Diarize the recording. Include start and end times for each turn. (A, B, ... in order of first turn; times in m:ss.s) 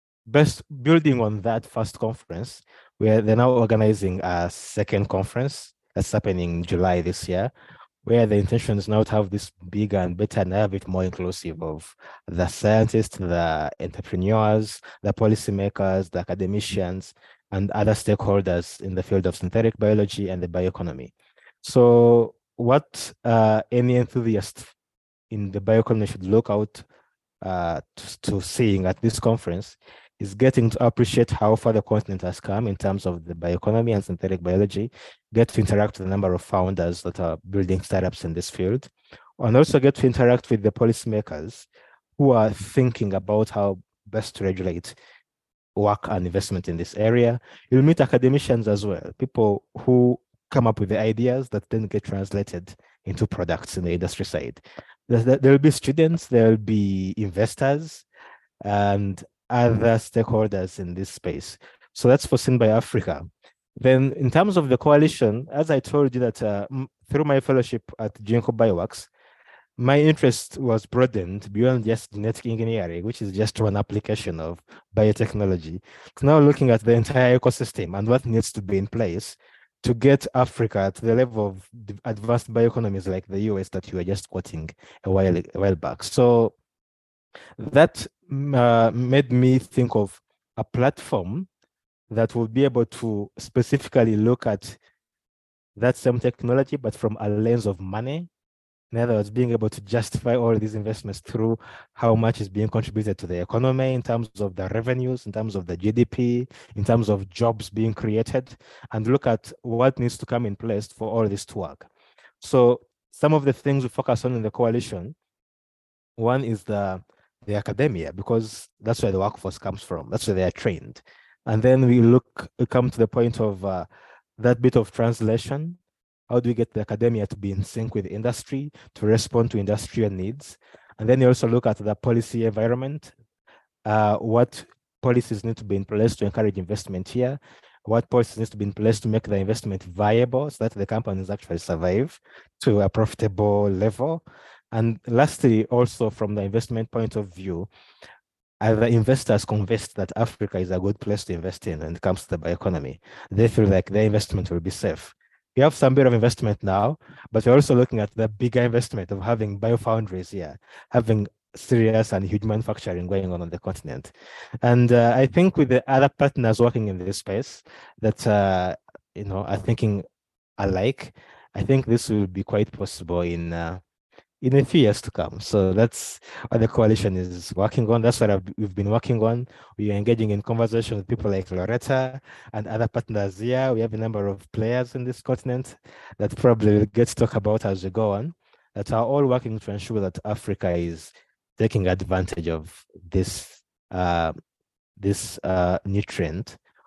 0:00.3-0:07.5 A
0:08.0-0:24.7 A
0:25.3-0:26.9 A
0:27.4-0:45.0 A
0:45.8-0:58.0 A
0:58.6-1:09.1 A
1:09.8-1:26.6 A
1:27.6-1:31.5 A
1:32.1-1:34.8 A
1:35.8-1:38.3 A
1:38.9-1:51.9 A
1:52.4-1:55.2 A
1:56.2-2:03.9 A
2:04.4-2:05.8 A
2:06.3-2:13.1 A
2:13.8-2:27.7 A
2:28.6-2:44.1 A
2:44.6-2:50.0 A
2:50.6-2:53.8 A
2:54.4-3:14.4 A
3:15.0-3:16.6 A